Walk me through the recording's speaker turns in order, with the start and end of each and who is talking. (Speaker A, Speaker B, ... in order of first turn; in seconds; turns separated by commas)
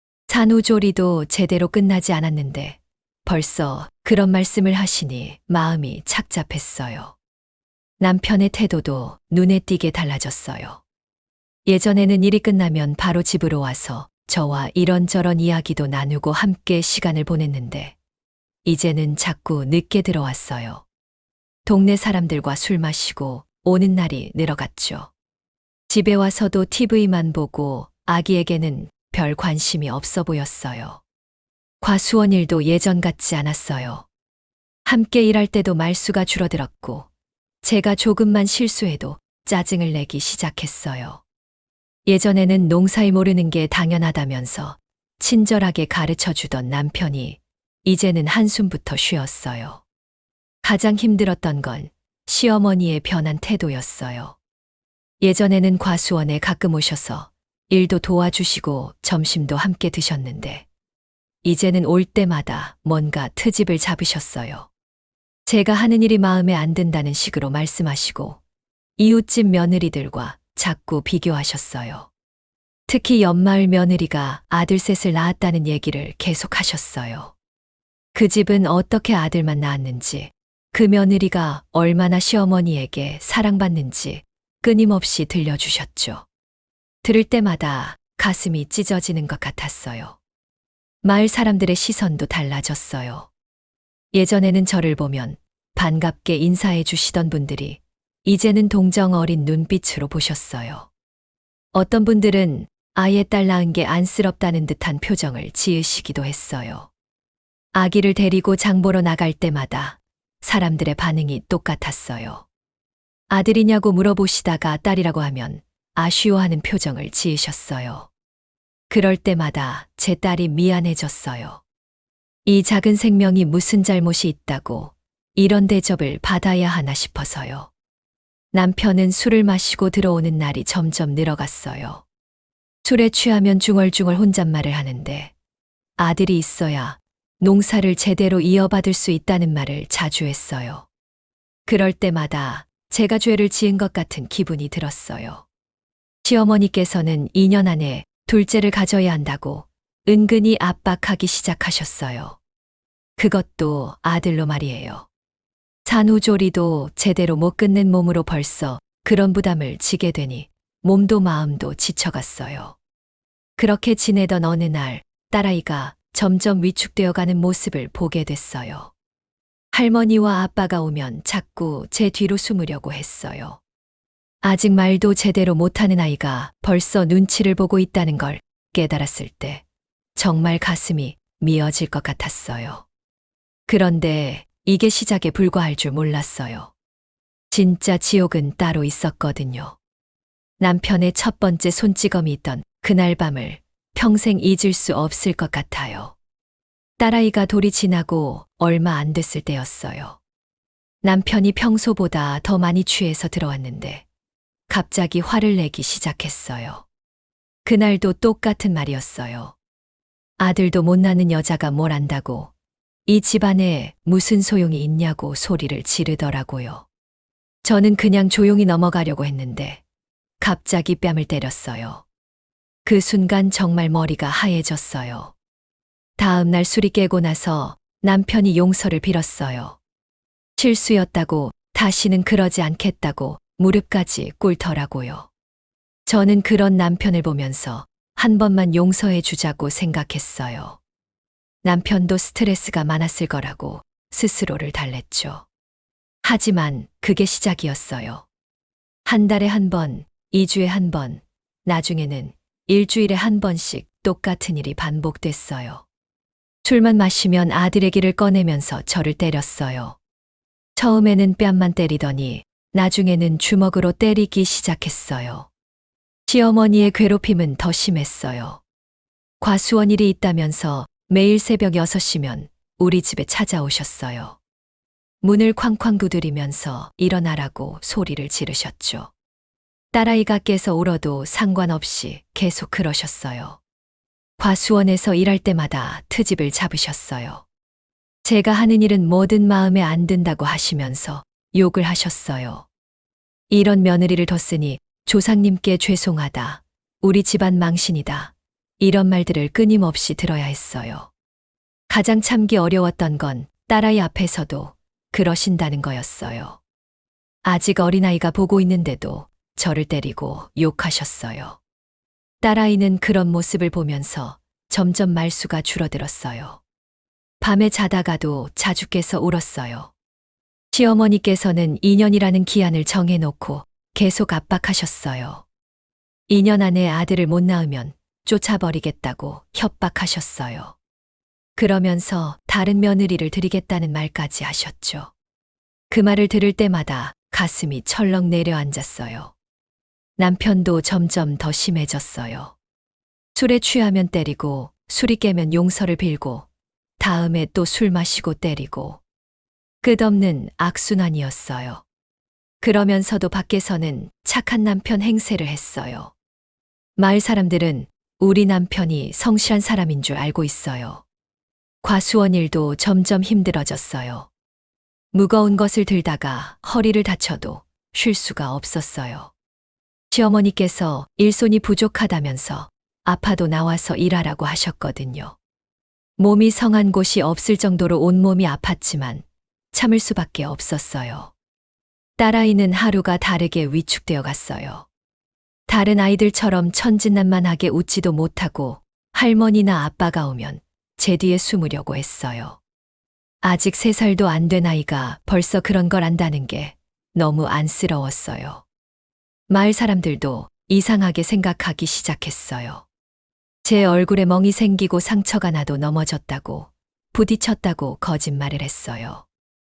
Speaker A: 0.3-7.2, Speaker A: 8.0-10.8, Speaker A: 11.7-17.9, Speaker A: 18.6-20.8, Speaker A: 21.7-25.1, Speaker A: 25.9-31.0, Speaker A: 31.8-34.1, Speaker A: 34.9-37.1, Speaker A: 37.6-41.2, Speaker A: 42.1-49.8, Speaker A: 50.6-54.4, Speaker A: 55.2-60.7, Speaker A: 61.4-64.7, Speaker A: 65.5-68.4, Speaker A: 69.0-72.1, Speaker A: 72.9-77.3, Speaker A: 78.1-86.2, Speaker A: 87.0-90.2, Speaker A: 91.0-93.3, Speaker A: 94.1-100.9, Speaker A: 101.7-106.9, Speaker A: 107.7-112.4, Speaker A: 113.3-118.1, Speaker A: 118.9-121.6, Speaker A: 122.5-127.7, Speaker A: 128.5-132.0, Speaker A: 132.8-135.3, Speaker A: 136.0-140.9, Speaker A: 141.7-145.4, Speaker A: 146.2-152.4, Speaker A: 153.2-155.1, Speaker A: 155.8-162.8, Speaker A: 163.6-168.9, Speaker A: 169.7-173.6, Speaker A: 174.4-179.6, Speaker A: 180.2-182.8, Speaker A: 183.7-186.7, Speaker A: 187.5-189.8, Speaker A: 190.6-196.2, Speaker A: 197.0-200.2, Speaker A: 201.0-204.0, Speaker A: 204.7-206.8, Speaker A: 207.7-209.6, Speaker A: 210.4-212.5, Speaker A: 213.1-216.8, Speaker A: 217.6-219.8, Speaker A: 220.4-222.0, Speaker A: 222.8-225.3, Speaker A: 226.2-229.8, Speaker A: 230.6-235.3, Speaker A: 236.1-240.8, Speaker A: 241.6-245.4, Speaker A: 246.2-248.2, Speaker A: 249.1-255.8, Speaker A: 256.6-260.0, Speaker A: 260.8-265.5, Speaker A: 266.3-268.6, Speaker A: 269.4-274.4, Speaker A: 275.2-279.1, Speaker A: 279.9-283.6, Speaker A: 284.4-287.4, Speaker A: 288.2-292.7, Speaker A: 293.5-301.1, Speaker A: 301.9-306.6, Speaker A: 307.4-311.6, Speaker A: 312.4-316.6, Speaker A: 317.4-319.9, Speaker A: 320.7-325.4, Speaker A: 326.3-330.8, Speaker A: 331.6-335.1, Speaker A: 335.9-339.3, Speaker A: 340.2-342.5, Speaker A: 343.3-346.5, Speaker A: 347.0-349.0, Speaker A: 349.8-351.8, Speaker A: 352.6-356.1, Speaker A: 357.0-361.0, Speaker A: 361.8-364.3, Speaker A: 365.1-369.3, Speaker A: 370.1-375.4, Speaker A: 376.2-381.3, Speaker A: 382.2-384.9, Speaker A: 385.7-392.6, Speaker A: 393.4-398.6, Speaker A: 399.5-402.8, Speaker A: 403.6-409.2